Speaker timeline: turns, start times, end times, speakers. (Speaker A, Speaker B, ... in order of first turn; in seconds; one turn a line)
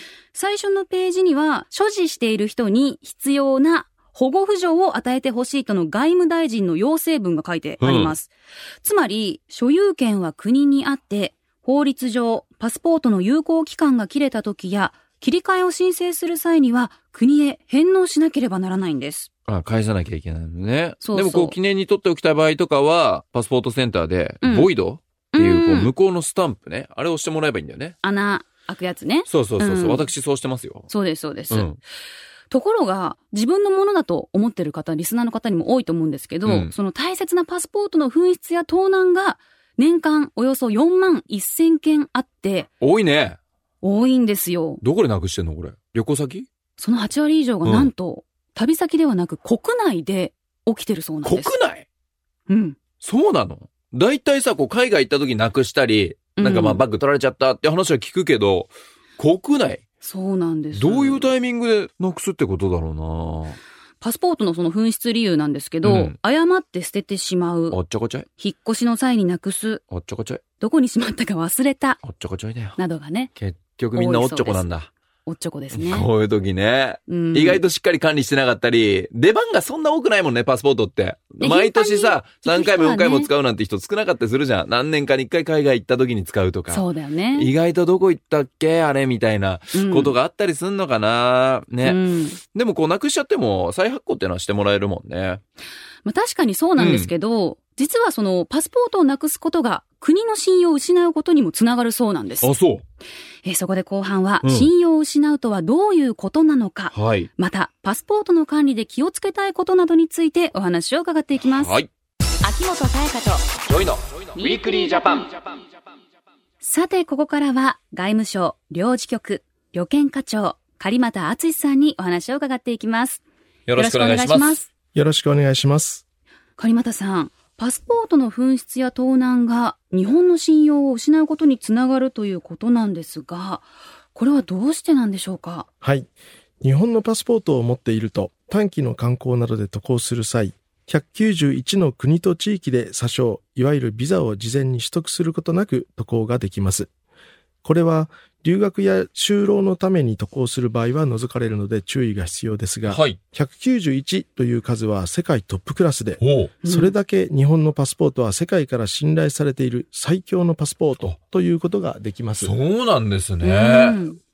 Speaker A: 0.3-19.3
Speaker B: 7.8-8.1
Speaker B: 19.5-27.9
Speaker A: 21.0-21.6
Speaker A: 24.4-24.7
Speaker A: 25.3-25.9
Speaker A: 28.0-30.1
Speaker B: 29.3-30.9
Speaker A: 30.9-31.7
Speaker B: 31.5-31.8
Speaker A: 32.5-42.7
Speaker B: 36.4-36.7
Speaker B: 42.8-43.4
Speaker A: 43.8-44.8
Speaker B: 44.8-46.5
Speaker A: 46.8-51.5
Speaker B: 47.6-47.9
Speaker B: 51.2-51.9
Speaker A: 52.5-52.8
Speaker B: 53.0-59.8
Speaker A: 56.4-56.8
Speaker A: 60.0-61.3
Speaker B: 60.7-63.6
Speaker A: 64.0-67.8
Speaker B: 65.8-66.2
Speaker B: 67.7-68.2
Speaker A: 68.4-69.8
Speaker B: 69.9-70.4
Speaker A: 70.6-72.0
Speaker B: 72.0-72.8
Speaker A: 72.8-73.3
Speaker B: 73.3-74.9
Speaker A: 73.9-74.7
Speaker A: 75.2-76.1
Speaker B: 75.7-95.4
Speaker A: 77.1-77.6
Speaker A: 81.4-83.3
Speaker A: 86.7-87.5
Speaker A: 89.7-90.2
Speaker A: 91.8-92.4
Speaker A: 96.0-102.5
Speaker B: 96.8-97.1
Speaker B: 102.4-102.8
Speaker A: 103.4-111.8
Speaker B: 104.4-104.7
Speaker B: 106.9-107.3
Speaker B: 111.5-111.9
Speaker A: 112.4-113.6
Speaker B: 113.7-115.3
Speaker A: 114.3-115.2
Speaker A: 116.6-123.2
Speaker B: 123.7-124.6
Speaker A: 123.8-124.7
Speaker C: 124.9-126.0
Speaker A: 126.6-135.7
Speaker C: 135.8-136.1
Speaker C: 136.6-146.9
Speaker C: 147.6-162.6
Speaker B: 152.8-153.2
Speaker B: 156.2-156.5
Speaker A: 156.6-156.9
Speaker B: 162.4-164.0
Speaker A: 163.4-164.2